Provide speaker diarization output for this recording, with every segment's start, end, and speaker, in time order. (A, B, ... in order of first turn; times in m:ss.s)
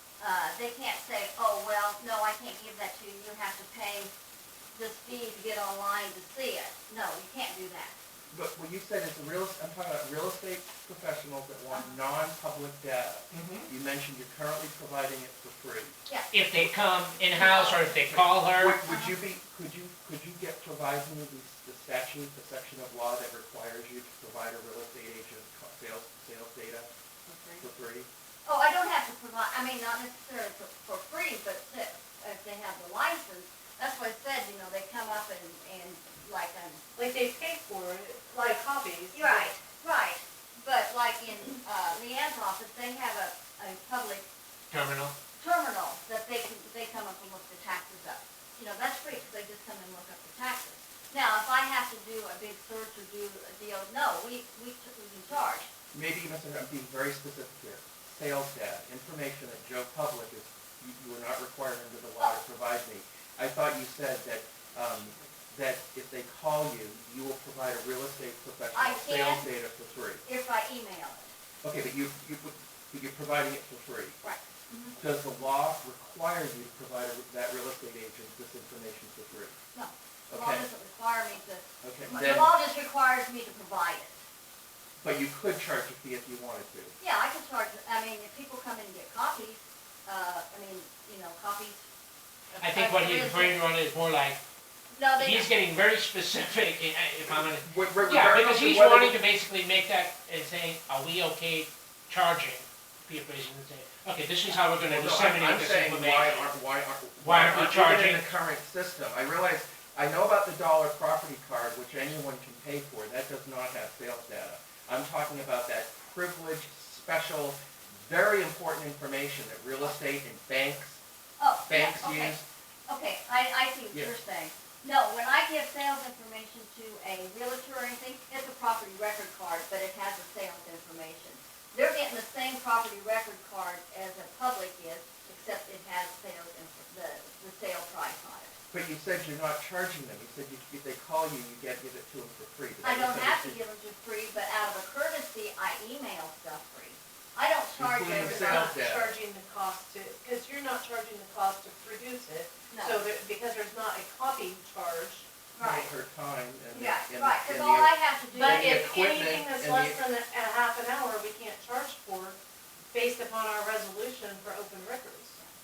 0:00.2-0:04.1 A
0:04.8-0:08.0 A
0:08.3-0:15.9 B
0:13.3-0:13.7 C
0:16.1-0:16.3 A
0:16.3-0:18.8 C
0:17.3-0:18.0 A
0:18.1-0:26.9 B
0:18.9-0:19.2 A
0:27.3-0:27.6 D
0:27.6-0:28.1 B
0:28.5-0:36.8 A
0:37.0-0:39.5 D
0:39.1-0:44.3 A
0:44.7-0:45.1 C
0:45.4-0:55.7 A
0:55.9-1:10.2 B
1:08.7-1:09.5 A
1:10.2-1:11.3 A
1:11.6-1:14.2 B
1:14.2-1:15.0 A
1:15.0-1:19.6 B
1:19.7-1:24.2 A
1:20.3-1:20.7 B
1:21.8-1:22.5 B
1:25.0-1:27.0 B
1:27.0-1:31.9 A
1:32.5-1:33.6 A
1:32.6-1:34.4 C
1:34.9-1:35.5 A
1:35.1-1:46.5 C
1:37.2-1:39.2 B
1:44.9-2:01.0 B
1:47.2-1:48.2 C
2:01.4-2:18.6 A
2:01.7-2:02.4 B
2:18.7-2:23.6 B
2:22.8-2:28.8 A
2:27.8-2:29.1 B
2:28.2-2:35.3 D
2:32.7-2:33.0 A
2:35.6-2:35.9 A
2:35.6-2:40.0 B
2:36.7-2:38.9 A
2:38.3-2:42.4 D
2:42.9-2:45.4 D